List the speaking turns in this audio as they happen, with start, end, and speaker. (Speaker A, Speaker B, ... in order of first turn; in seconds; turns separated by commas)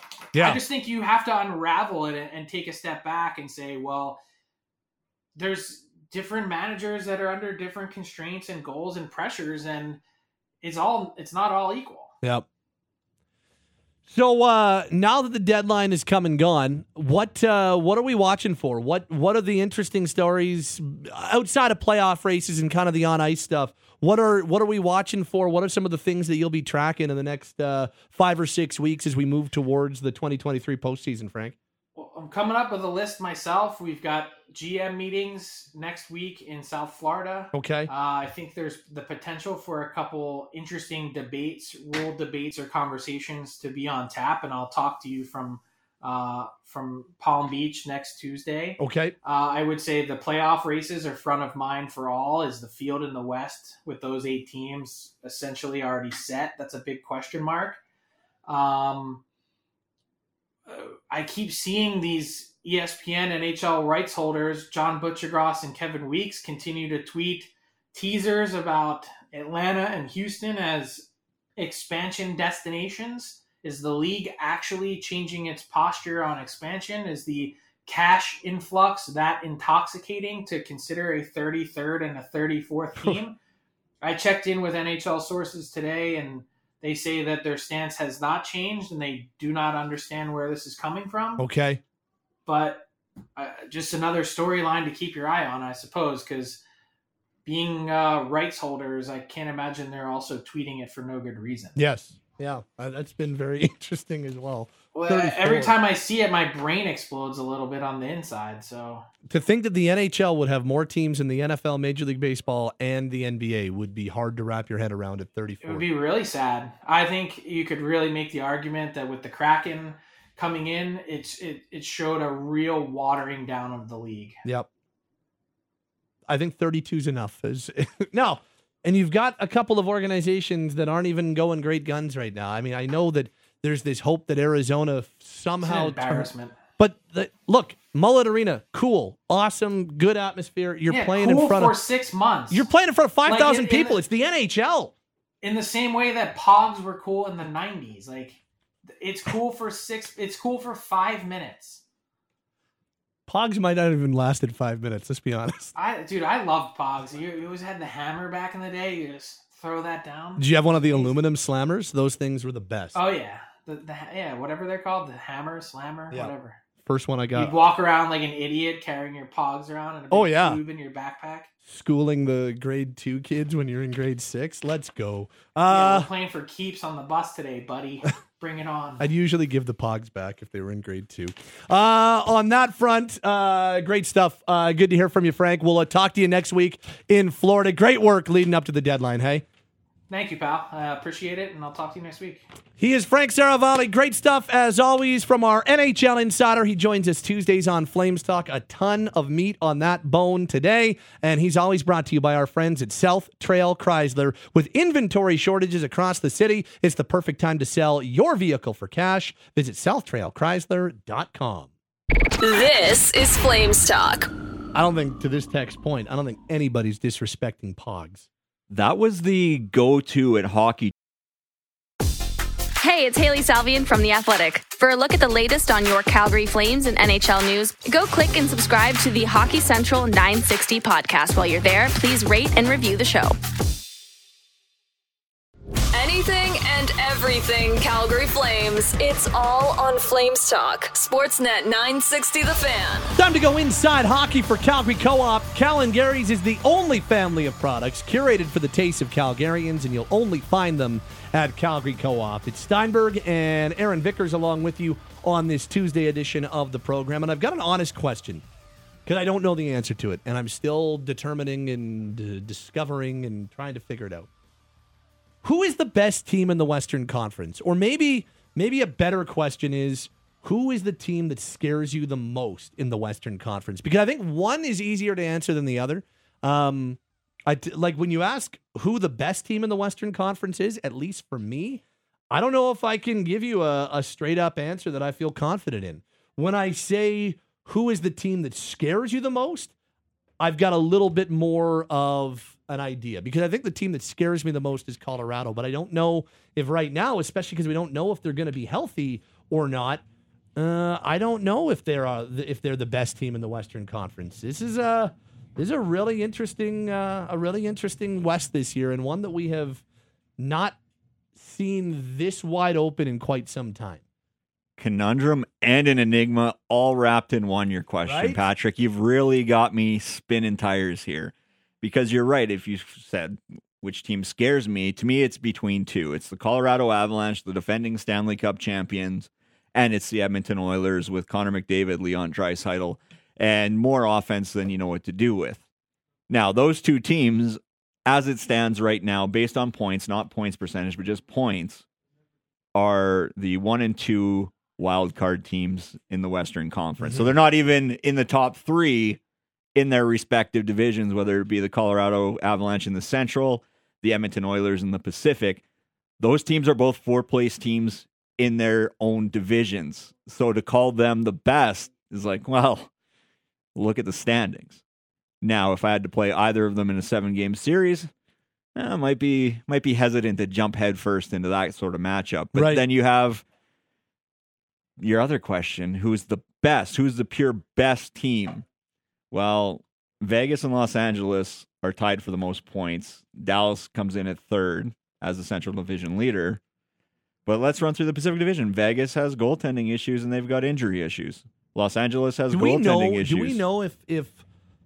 Speaker A: 0.3-0.6, Speaker B: 0.4-4.2, Speaker B: 5.4-10.0, Speaker B: 10.6-12.1, Speaker A: 14.1-31.6, Speaker B: 31.9-57.8, Speaker A: 37.5-37.9, Speaker A: 48.8-49.1, Speaker B: 58.5-59.2, Speaker B: 60.7-83.4, Speaker B: 84.0-91.4, Speaker A: 91.4-91.8, Speaker B: 92.5-96.6, Speaker B: 97.4-101.8, Speaker A: 101.8-105.8, Speaker B: 104.9-109.0, Speaker A: 109.3-115.9, Speaker B: 115.6-124.4, Speaker A: 126.3-141.8, Speaker B: 135.6-136.6, Speaker B: 140.9-142.7, Speaker A: 142.5-144.9, Speaker B: 143.3-144.0, Speaker B: 145.4-148.4, Speaker B: 149.0-151.8, Speaker A: 153.3-155.7, Speaker B: 155.7-161.1, Speaker A: 160.4-163.0, Speaker B: 162.9-166.6, Speaker A: 166.8-167.6, Speaker B: 167.3-171.5, Speaker A: 170.1-170.6, Speaker A: 171.7-176.1, Speaker B: 175.7-179.1, Speaker A: 179.0-189.4, Speaker B: 190.1-192.4, Speaker A: 192.8-211.7, Speaker C: 212.4-214.3, Speaker A: 214.7-218.3, Speaker D: 218.7-220.9, Speaker E: 222.8-233.4, Speaker C: 235.9-243.1, Speaker A: 243.2-258.4, Speaker A: 259.1-264.3, Speaker A: 265.4-289.7, Speaker A: 290.4-300.0, Speaker A: 300.6-309.8, Speaker A: 310.4-310.8, Speaker A: 311.4-314.0, Speaker D: 314.8-335.6, Speaker A: 318.0-318.4, Speaker D: 336.3-341.9, Speaker D: 342.7-349.2, Speaker A: 347.0-347.3, Speaker D: 349.7-355.6, Speaker D: 356.2-362.9, Speaker D: 363.7-364.8, Speaker D: 365.4-368.1, Speaker D: 368.8-373.4, Speaker A: 372.5-372.8, Speaker D: 375.0-378.6, Speaker D: 379.3-386.6, Speaker D: 387.4-393.6, Speaker A: 392.5-394.4